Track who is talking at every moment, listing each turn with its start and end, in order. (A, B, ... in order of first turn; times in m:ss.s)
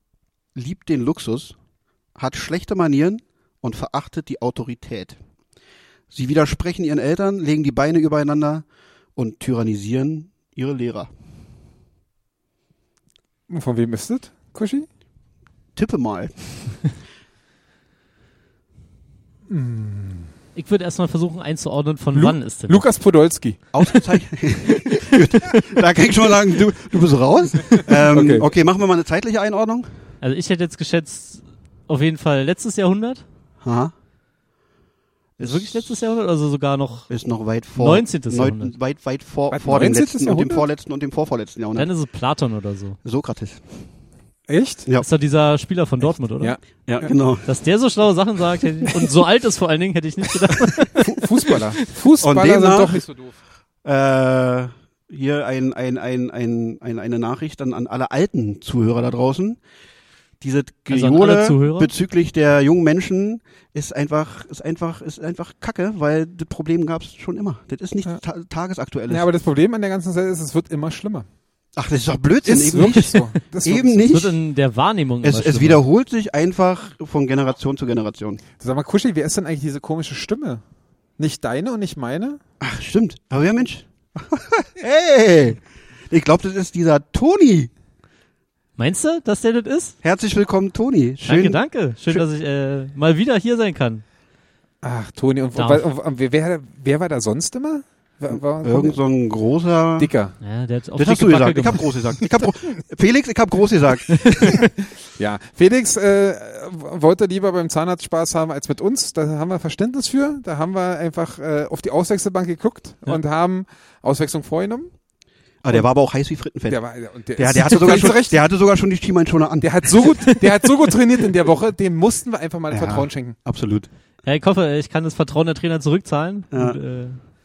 0:00.5-0:01.6 A
0:02.2-0:05.2 A
0:06.1-0:08.6 A
0:09.2-0:11.1 A
0:13.5-0:14.9 B
0:15.8-0:16.3 A
0:19.5-0:20.3 B
0:20.5-0:22.8 C
0:22.1-0:23.6 B
0:23.7-0:29.9 A
0:27.9-0:28.5 B
0:30.2-0:33.2 C
0:33.6-0:33.9 A
0:35.4-0:35.9 A
0:35.4-0:37.1 C
0:37.1-0:41.9 A
0:37.8-0:38.7 C
0:39.5-0:40.6 B
0:41.8-0:43.0 C
0:43.0-0:43.6 A
0:44.5-0:44.9 B
0:45.0-0:46.6 C
0:46.8-0:47.5 A
0:47.4-0:51.7 C
0:50.5-0:50.9 A
0:51.0-0:53.3 B
0:52.2-0:53.0 A
0:53.8-0:59.6 A
1:00.4-1:09.3 A
1:00.9-1:01.9 C
1:09.1-1:11.3 B
1:11.8-1:14.4 A
1:12.4-1:14.1 B
1:14.1-1:15.8 C
1:15.2-1:18.4 A
1:18.6-1:20.6 B
1:21.2-1:22.4 B
1:22.6-1:27.7 A
1:28.8-1:29.9 C
1:30.0-1:32.2 A
1:31.2-1:34.0 C
1:34.8-1:39.0 B
1:35.6-1:35.8 C
1:38.6-1:40.1 A
1:40.0-1:40.3 B
1:40.4-1:41.9 C
1:41.0-1:44.6 A
1:45.2-1:54.9 B
1:55.6-1:56.8 A
1:56.7-1:58.4 B
1:57.4-2:00.1 A
1:59.6-2:03.4 B
2:00.2-2:00.7 C
2:02.7-2:03.9 A
2:04.2-2:07.2 C
2:06.5-2:06.8 A